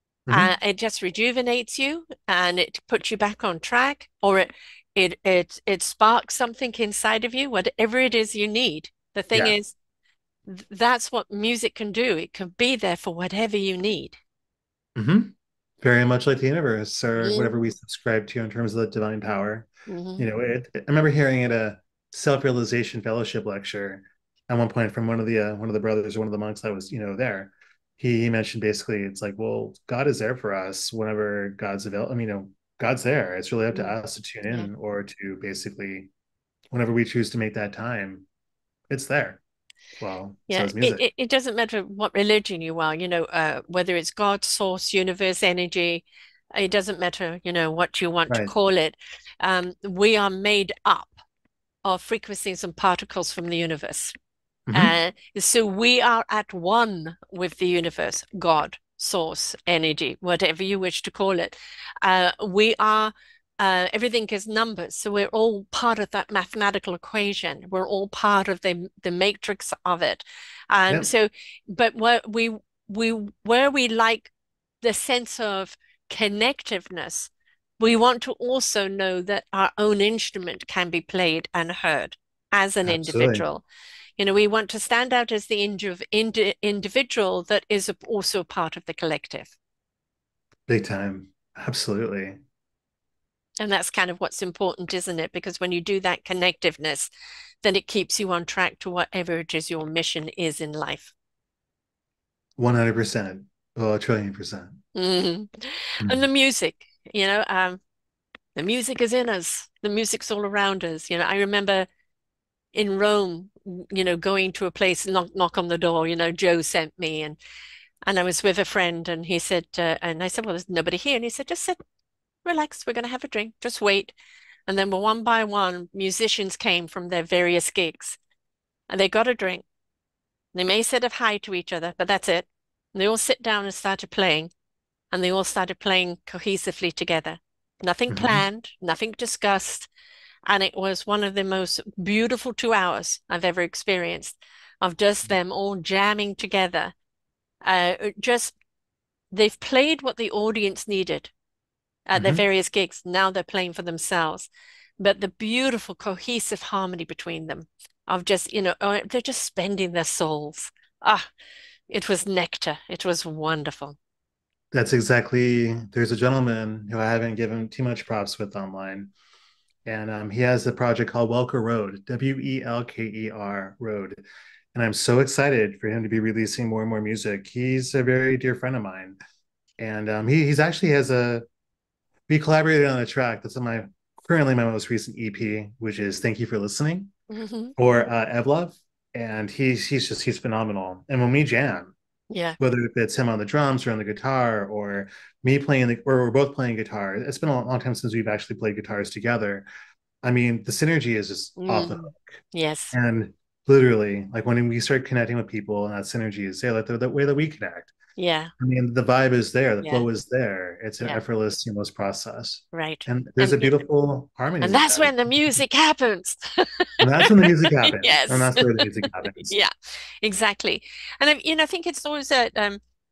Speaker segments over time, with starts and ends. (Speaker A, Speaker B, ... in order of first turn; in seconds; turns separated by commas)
Speaker A: 0.3-0.5, Speaker B: 0.3-9.7, Speaker B: 10.4-14.2, Speaker A: 14.9-19.7, Speaker B: 17.2-17.5, Speaker B: 19.9-20.2, Speaker A: 20.2-36.1, Speaker A: 36.7-38.2, Speaker A: 38.9-39.4, Speaker A: 40.0-41.0, Speaker B: 40.5-51.2, Speaker B: 51.8-54.1, Speaker A: 54.7-54.9, Speaker B: 54.7-74.3, Speaker B: 74.8-83.6, Speaker A: 82.8-83.5, Speaker B: 84.2-89.5, Speaker A: 90.7-92.4, Speaker B: 93.6-97.1, Speaker B: 97.6-101.1, Speaker A: 102.6-104.8, Speaker B: 104.9-107.8, Speaker B: 108.5-111.9, Speaker B: 112.7-117.4, Speaker B: 118.1-121.8, Speaker B: 122.4-124.1, Speaker B: 124.7-128.2, Speaker B: 128.9-129.6, Speaker B: 130.5-134.5, Speaker B: 135.1-139.9, Speaker A: 138.1-138.4, Speaker B: 140.4-146.9, Speaker B: 147.6-148.5, Speaker B: 149.3-151.3, Speaker B: 152.1-161.3, Speaker A: 152.2-152.4, Speaker B: 161.9-164.0, Speaker A: 164.7-169.1, Speaker A: 169.8-174.2, Speaker A: 174.7-179.2, Speaker A: 179.8-181.4, Speaker A: 182.3-187.1, Speaker B: 187.3-187.7, Speaker A: 187.8-191.9, Speaker B: 192.3-192.6, Speaker A: 192.6-199.7, Speaker A: 200.2-207.9, Speaker B: 201.6-202.9, Speaker B: 208.2-208.5, Speaker A: 208.6-215.6, Speaker B: 212.7-213.8, Speaker B: 214.6-222.8, Speaker A: 217.0-219.6